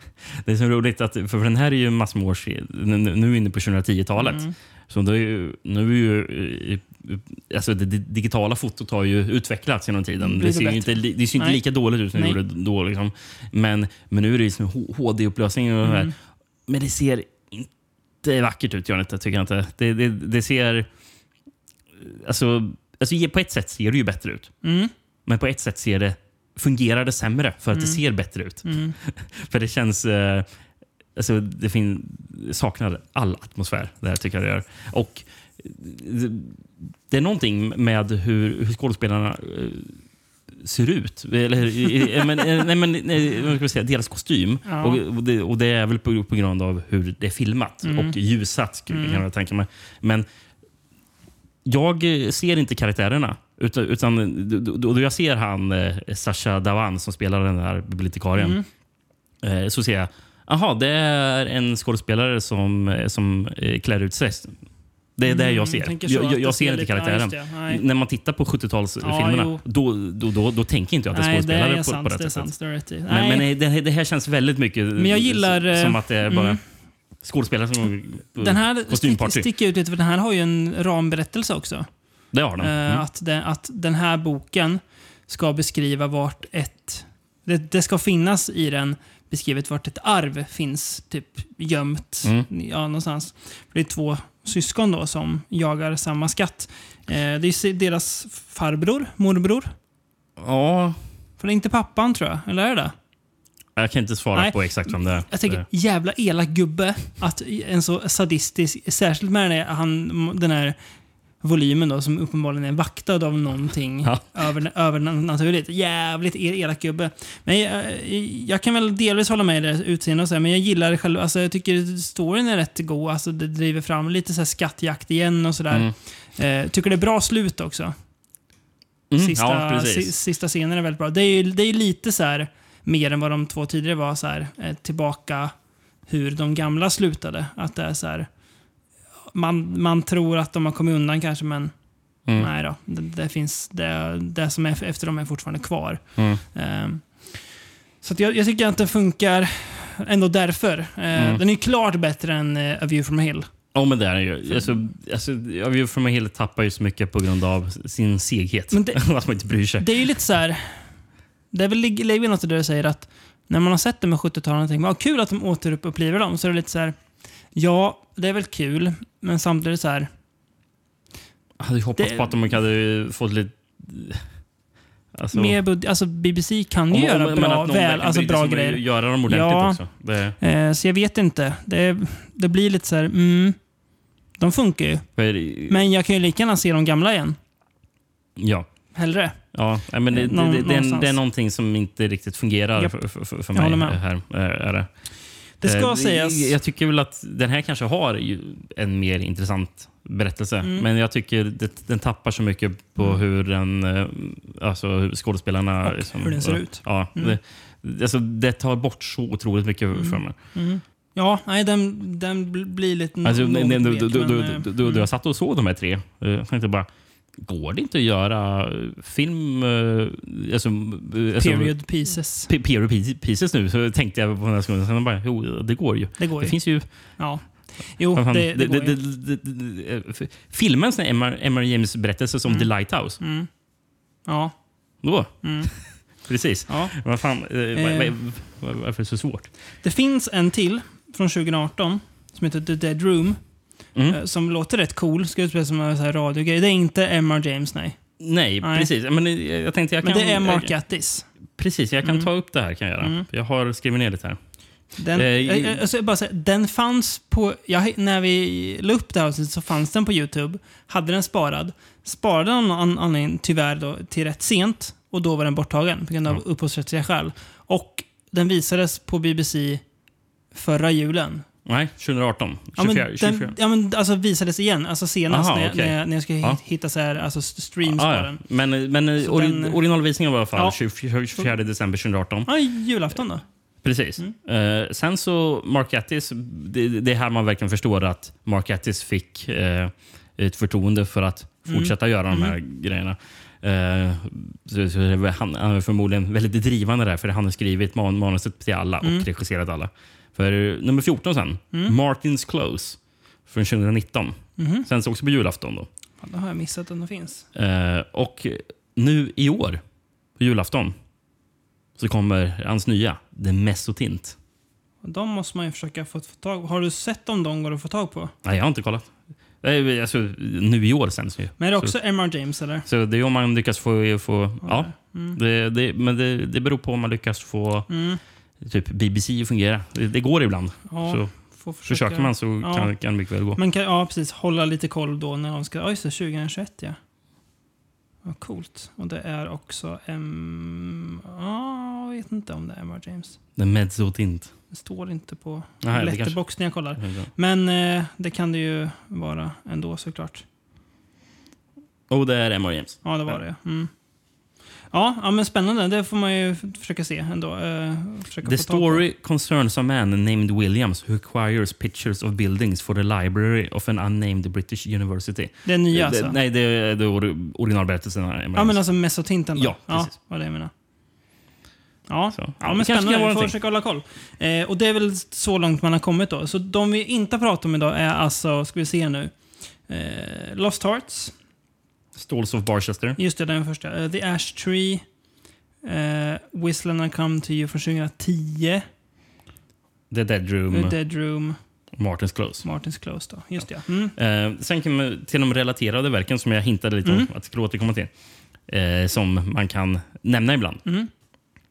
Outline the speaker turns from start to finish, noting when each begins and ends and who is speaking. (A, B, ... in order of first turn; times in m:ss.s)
0:00.2-0:16.1 A
0:04.2-0:04.5 B
0:10.2-0:11.6 B
0:12.1-0:12.4 B
0:15.8-0:16.1 B
0:16.7-0:17.7 A
0:18.2-0:20.9 A
0:22.0-0:24.5 A
0:24.6-0:24.9 B
0:25.3-0:30.4 A
0:27.7-0:28.0 B
0:28.6-0:29.0 B
0:31.2-0:40.0 A
0:40.5-0:50.2 A
0:44.7-0:45.0 B
0:47.8-0:48.2 B
0:48.9-0:49.2 B
0:51.6-0:58.6 A
0:58.4-0:58.7 B
0:59.4-1:04.6 A
1:05.2-1:12.5 A
1:05.2-1:07.8 B
1:09.0-1:09.6 B
1:11.1-1:13.5 B
1:13.1-1:16.6 A
1:15.0-1:16.6 B
1:17.2-1:19.5 A
1:18.4-1:21.9 B
1:22.3-1:23.0 A
1:22.6-1:39.7 B
1:40.4-1:41.0 A
1:41.4-1:42.9 B
1:43.8-1:45.7 A
1:44.3-1:50.8 B
1:51.4-2:07.9 B
2:09.1-2:10.1 A
2:09.2-2:15.5 B
2:16.1-2:18.3 B
2:19.3-2:21.7 B
2:22.4-2:27.2 B
2:26.2-2:26.4 A
2:28.0-2:33.5 B
2:31.1-2:31.4 A
2:33.7-2:39.9 A
2:38.7-2:39.0 B
2:39.8-2:40.8 B
2:41.5-2:47.0 B
2:47.6-2:50.1 B
2:51.6-2:54.2 A
2:52.0-2:52.4 B
2:55.1-2:55.6 A
2:55.3-2:59.8 B
2:56.9-3:00.4 A
3:00.4-3:03.6 B
3:04.4-3:05.1 B
3:05.2-3:05.9 A
3:05.7-3:07.4 B
3:08.4-3:08.7 A
3:09.0-3:09.4 B
3:09.5-3:14.9 A
3:10.1-3:11.2 B
3:13.5-3:14.0 B
3:15.6-3:16.6 B
3:15.6-3:30.4 A
3:20.6-3:20.9 B
3:25.8-3:27.4 B
3:30.0-3:35.0 B
3:33.2-3:36.9 A
3:37.4-3:41.8 A
3:41.4-3:42.5 B
3:42.5-3:46.9 A
3:46.2-3:46.6 B
3:47.2-3:49.0 B
3:48.1-3:53.2 A
3:53.2-3:53.5 B
3:54.3-3:54.5 B
3:55.0-3:59.5 A
3:55.4-3:55.7 B
3:56.7-3:57.0 B
3:57.7-3:58.2 B
3:59.8-4:03.4 B
4:04.1-4:08.0 B
4:08.2-4:10.7 A
4:08.6-4:08.9 B
4:10.0-4:11.3 B
4:11.6-4:14.4 A
4:15.0-4:29.8 B
4:15.1-4:15.8 A
4:30.5-4:31.4 B
4:31.7-4:33.6 A
4:32.8-4:38.4 B
4:35.3-4:36.6 A
4:37.8-4:42.5 A
4:39.2-4:39.8 B
4:42.4-4:43.4 B
4:43.8-5:05.9 A
4:51.7-4:52.6 B
4:59.0-4:59.3 B
5:04.6-5:04.9 B
5:06.2-5:07.4 B
5:07.5-5:09.8 A
5:10.4-5:11.0 A
5:12.0-5:14.4 A
5:15.0-5:18.3 B
5:18.4-5:19.1 A
5:19.6-5:21.9 A
5:21.6-5:22.9 B
5:22.8-5:27.9 A
5:24.6-5:25.4 B
5:27.9-5:28.2 B
5:28.6-5:31.3 A
5:30.9-5:32.9 B
5:31.9-5:33.6 A
5:33.6-5:37.0 B
5:38.2-5:43.4 B
5:43.6-5:44.5 A
5:44.7-5:50.4 B
5:45.8-5:46.4 A
5:47.0-5:47.3 A
5:52.1-5:53.4 A
5:53.0-5:53.9 B
5:54.9-5:59.0 B
5:58.4-6:08.8 A
6:05.6-6:06.4 B
6:08.6-6:10.7 B
6:09.6-6:10.1 A
6:12.1-6:19.3 B
6:12.3-6:13.6 A
6:19.9-6:21.3 B
6:22.2-6:23.2 A
6:23.2-6:25.0 B
6:25.8-6:28.8 B
6:30.1-6:31.0 A
6:30.7-6:31.6 B
6:31.9-6:32.6 A
6:32.6-6:34.2 B
6:34.2-6:38.1 A
6:37.0-6:37.3 B
6:38.7-6:40.8 A